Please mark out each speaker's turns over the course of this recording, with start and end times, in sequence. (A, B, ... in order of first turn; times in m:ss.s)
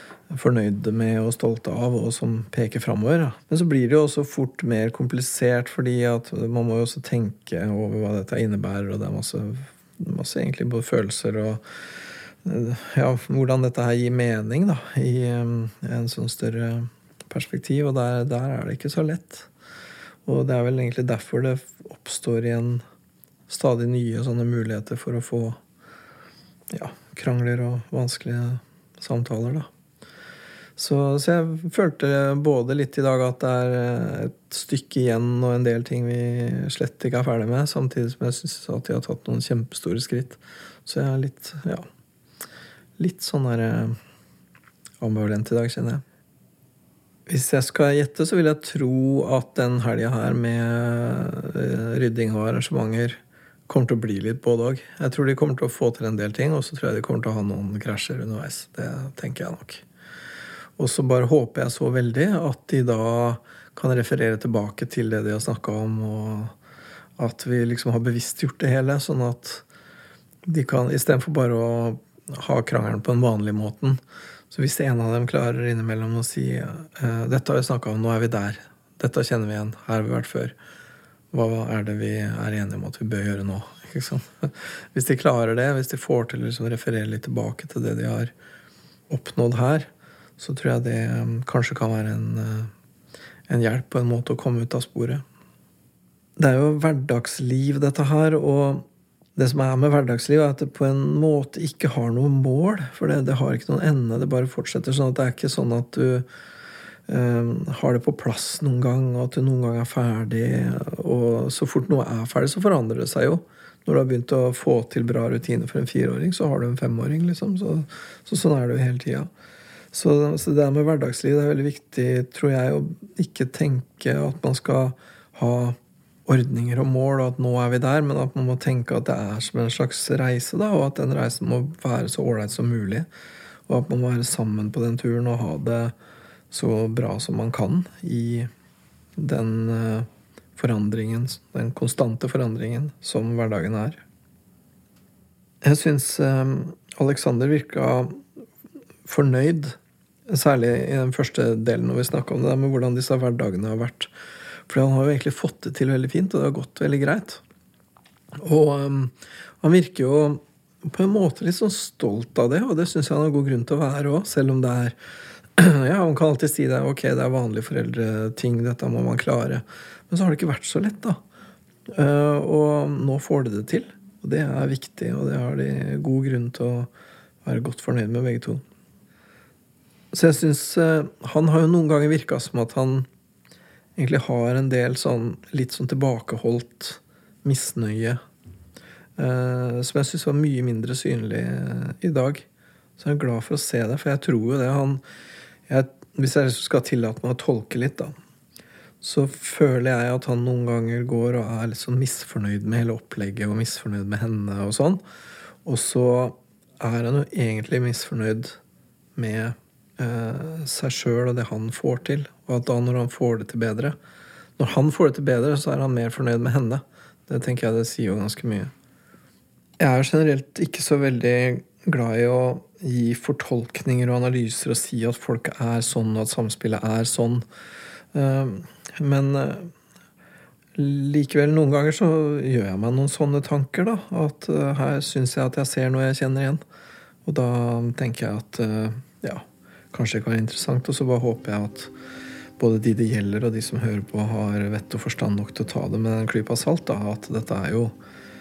0:00.3-0:11.6 A
0:12.4-0:19.5 A
0:20.2-0:22.8 A
0:23.5-0:25.6 A
0:26.7-0:29.7 A
0:30.8-0:41.8 A
0:43.0-0:44.0 A
0:45.0-0:46.0 A
0:47.3-0:59.8 A
1:00.8-1:06.5 A
1:07.2-1:09.6 A
1:10.4-1:14.0 A
1:14.5-1:20.5 A
1:21.3-1:28.3 A
1:29.1-1:32.7 A
1:33.5-1:35.2 A
1:36.4-1:38.8 A
1:39.4-1:46.2 A
1:47.1-1:59.3 A
1:59.9-2:13.1 A
2:13.7-2:15.9 A
2:16.5-2:18.5 A
2:19.2-2:24.0 A
2:25.6-2:28.2 A
2:29.0-2:29.8 A
2:30.3-2:34.1 A
2:34.7-2:37.4 A
2:38.3-2:45.0 A
2:45.6-2:51.2 A
2:51.9-2:56.9 A
2:57.4-2:58.6 A
3:00.1-3:03.1 A
3:04.0-3:08.2 A
3:09.2-3:12.4 A
3:13.0-3:15.0 A
3:15.7-3:18.1 A
3:19.0-3:25.0 A
3:25.6-3:28.6 A
3:29.2-3:34.0 A
3:34.6-3:38.7 A
3:39.8-3:47.4 A
3:48.1-3:49.7 A
3:50.7-3:56.6 A
3:57.2-4:01.9 A
4:02.6-4:08.0 A